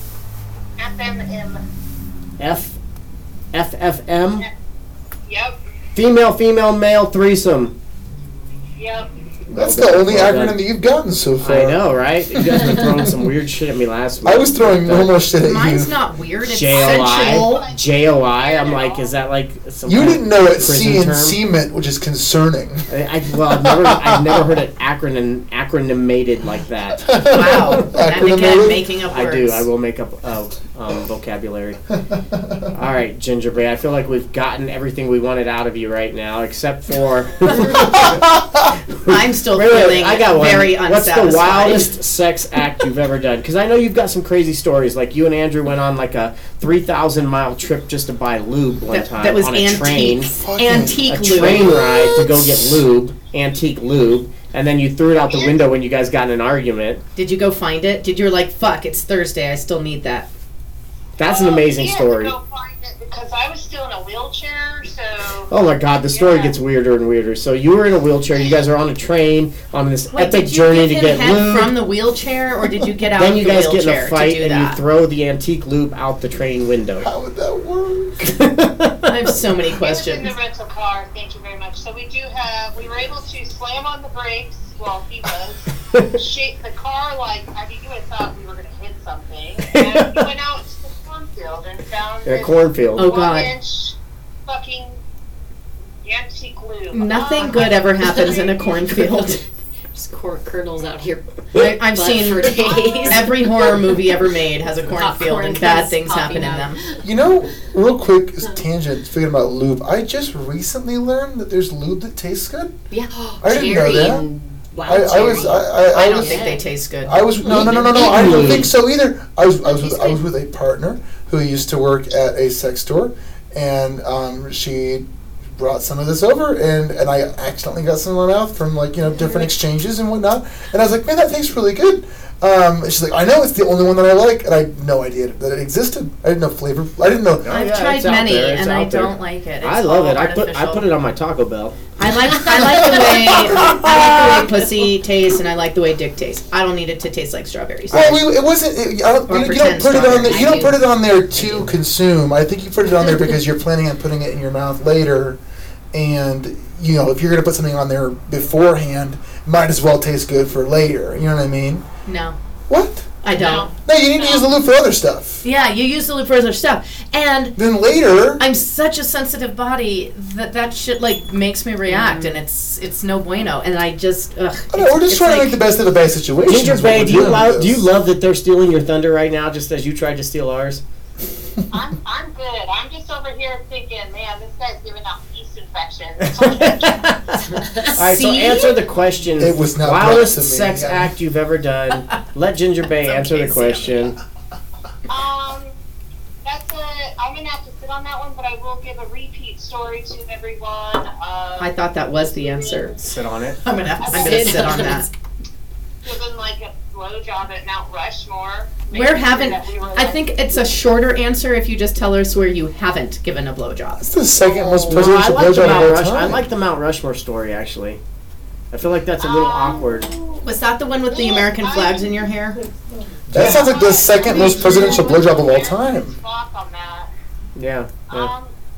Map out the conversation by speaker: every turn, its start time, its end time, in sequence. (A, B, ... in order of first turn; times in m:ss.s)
0:00.8-0:01.6 A
0:02.4-0:02.8 B
0:03.5-0:04.4 B
0:05.2-0:05.6 A
0:05.9-0:07.7 B
0:08.8-0:09.1 A
0:09.5-0:10.6 B
0:09.5-0:13.3 C
0:11.4-0:15.1 B
0:14.2-0:15.9 C
0:15.4-0:17.6 D
0:16.5-0:21.4 B
0:16.7-0:19.2 A
0:19.8-0:24.4 C
0:22.9-0:28.0 B
0:27.0-0:28.8 C
0:27.3-0:29.6 D
0:29.1-0:31.8 B
0:32.1-0:32.7 C
0:32.7-0:38.2 B
0:37.6-0:38.7 C
0:38.9-0:50.4 B
0:39.1-0:41.9 D
0:48.9-0:51.8 D
0:50.2-0:52.8 C
0:51.0-0:57.0 B
0:55.3-0:55.6 A
0:57.2-1:00.3 D
1:01.2-1:02.3 B
1:01.2-1:05.5 A
1:05.5-1:11.8 B
1:06.1-1:06.6 A
1:08.3-1:08.6 A
1:10.1-1:14.8 D
1:13.1-1:17.1 B
1:17.0-1:18.3 C
1:18.2-1:19.1 B
1:19.1-1:20.3 D
1:19.8-1:33.9 A
1:25.9-1:26.2 B
1:29.6-1:30.3 B
1:32.2-1:33.0 B
1:33.0-1:33.5 D
1:34.4-1:35.0 A
1:36.0-1:38.9 A
1:36.9-1:39.4 D
1:37.4-1:37.7 E
1:39.9-1:44.0 E
1:41.5-1:46.8 D
1:44.9-1:47.0 E
1:47.0-1:52.7 C
1:52.9-1:56.6 E
1:53.4-1:54.2 C
1:54.8-1:56.4 C
1:55.9-1:57.3 D
1:57.0-2:17.6 C
1:57.4-1:58.6 E
1:57.4-1:58.7 B
1:59.7-2:00.2 E
2:17.4-2:21.9 B
2:17.5-2:20.9 D
2:22.0-2:28.2 D
2:22.6-2:24.3 C
2:23.6-2:24.3 B
2:27.9-2:35.4 C
2:29.3-2:30.7 D
2:30.2-2:30.8 E
2:35.9-2:41.8 C
2:42.0-2:42.4 D
2:42.7-2:43.2 C
2:43.2-2:43.7 D
2:43.3-2:44.5 A
2:43.8-2:45.4 C
2:45.4-2:47.5 D
2:47.5-2:48.4 C
2:48.4-2:55.6 D
2:54.7-2:57.9 C
2:56.5-3:00.8 B
3:01.7-3:07.1 A
3:06.2-3:14.2 B
3:07.5-3:08.0 E
3:07.9-3:08.7 D
3:09.4-3:11.1 C
3:13.0-3:14.1 D
3:15.1-3:15.7 A
3:16.4-3:23.0 A
3:21.6-3:23.0 D
3:23.0-3:23.6 B
3:23.6-3:25.1 D
3:24.0-3:25.0 A
3:24.1-3:25.1 E
3:26.0-3:30.7 A
3:28.9-3:34.0 D
3:34.0-3:36.4 C
3:34.5-3:34.8 A
3:34.9-3:38.0 B
3:38.7-3:40.1 B
3:39.2-3:40.4 A
3:40.4-3:42.6 D
3:41.0-3:42.3 A
3:43.3-3:46.2 C
3:43.3-3:45.1 D
3:43.4-3:47.1 A
3:47.6-3:48.3 B
3:48.1-3:48.5 A